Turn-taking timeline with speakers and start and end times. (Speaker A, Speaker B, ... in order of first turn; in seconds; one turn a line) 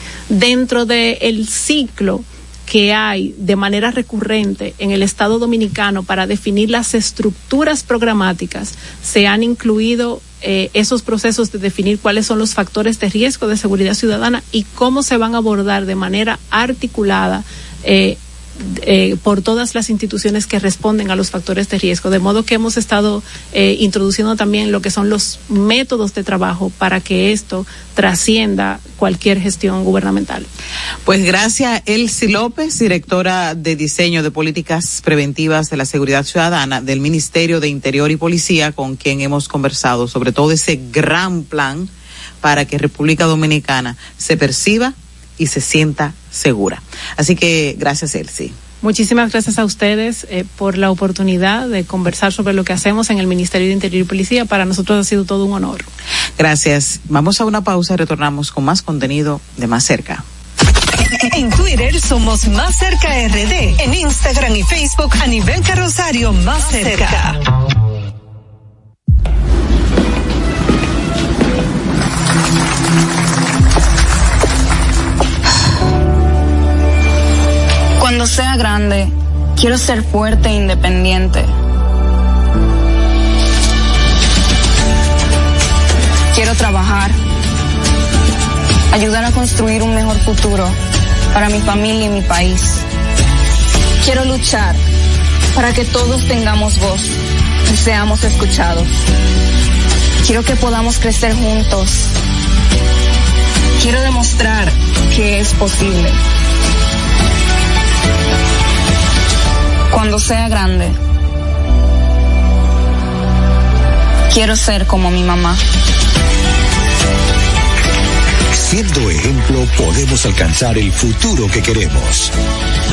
Speaker A: 0.3-30.5
Speaker B: 31.1-41.9
Speaker B: 42.4-48.5
Speaker A: 48.8-55.9
Speaker B: 56.4-60.2
Speaker C: 61.2-67.4
Speaker D: 78.0-81.5
Speaker D: 86.3-87.2
Speaker D: 88.9-90.8
Speaker D: 91.3-92.8
Speaker D: 94.0-94.8
Speaker D: 95.5-97.2
Speaker D: 97.7-98.9
Speaker D: 100.2-102.2
Speaker D: 103.8-106.2
Speaker D: 109.9-111.0
Speaker D: 114.3-115.6
Speaker E: 118.5-122.3